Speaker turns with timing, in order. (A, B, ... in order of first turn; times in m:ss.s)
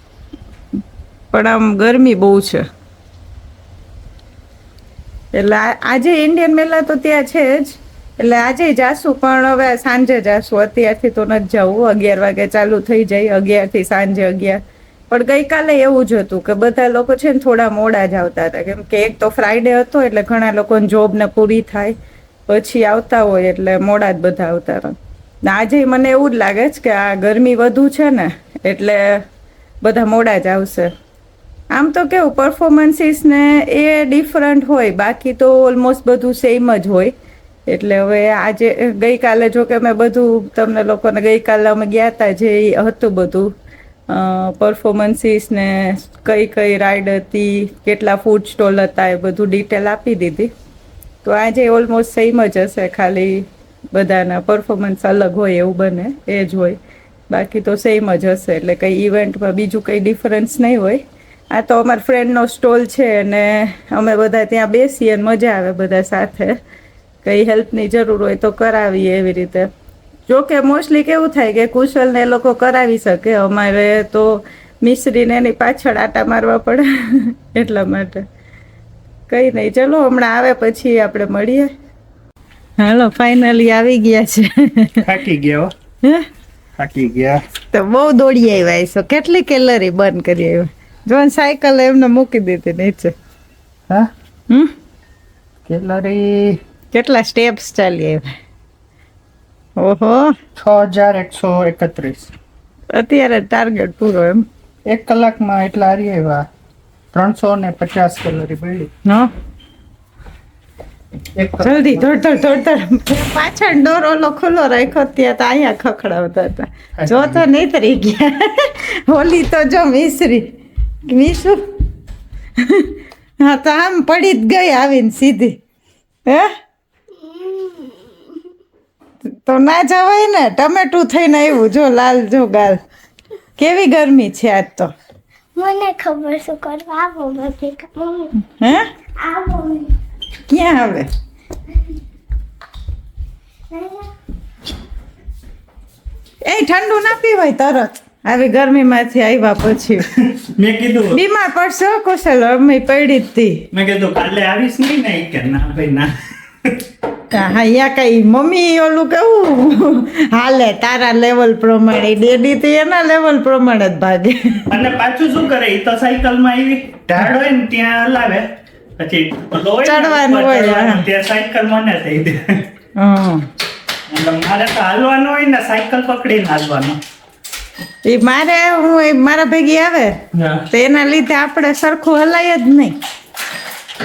0:01.3-0:02.6 A
0:05.3-0:21.9 A
0:22.5-0:29.2 A
0:29.8-0:30.9 A
0:31.7-0:37.1 A
0:37.7-0:43.5 A
0:44.1-0:50.5 A
0:51.2-1:06.5 A
1:07.2-1:09.7 A
1:10.3-1:18.2 A
1:19.3-1:21.7 A
1:22.8-1:25.0 A
1:25.0-1:25.7 B
1:26.8-1:27.4 B
1:27.7-1:33.1 A
1:35.7-1:36.6 B
1:36.9-1:38.3 A
1:39.8-1:40.3 A
1:40.6-1:42.3 B
1:42.9-1:44.4 A
1:44.9-1:46.5 B
1:47.1-1:48.9 B
1:51.4-1:52.0 B
1:51.6-2:00.5 A
1:57.0-1:57.4 B
2:01.1-2:01.6 A
2:02.6-2:05.6 A
2:07.1-2:08.5 C
2:09.2-2:12.8 A
2:13.6-2:14.9 A
2:15.5-2:18.4 C
2:18.6-2:18.9 A
2:19.2-2:20.0 C
2:20.5-2:21.1 A
2:23.7-2:24.1 C
2:26.4-2:30.1 A
2:30.2-2:31.2 B
2:31.1-2:33.6 A
2:33.7-2:36.1 B
2:37.3-2:44.6 A
2:44.7-2:48.5 B
2:49.0-2:52.7 B
2:49.8-2:51.0 A
2:53.0-2:53.4 A
2:54.1-2:57.0 B
2:58.0-3:00.2 A
3:00.4-3:00.6 B
3:00.7-3:03.0 A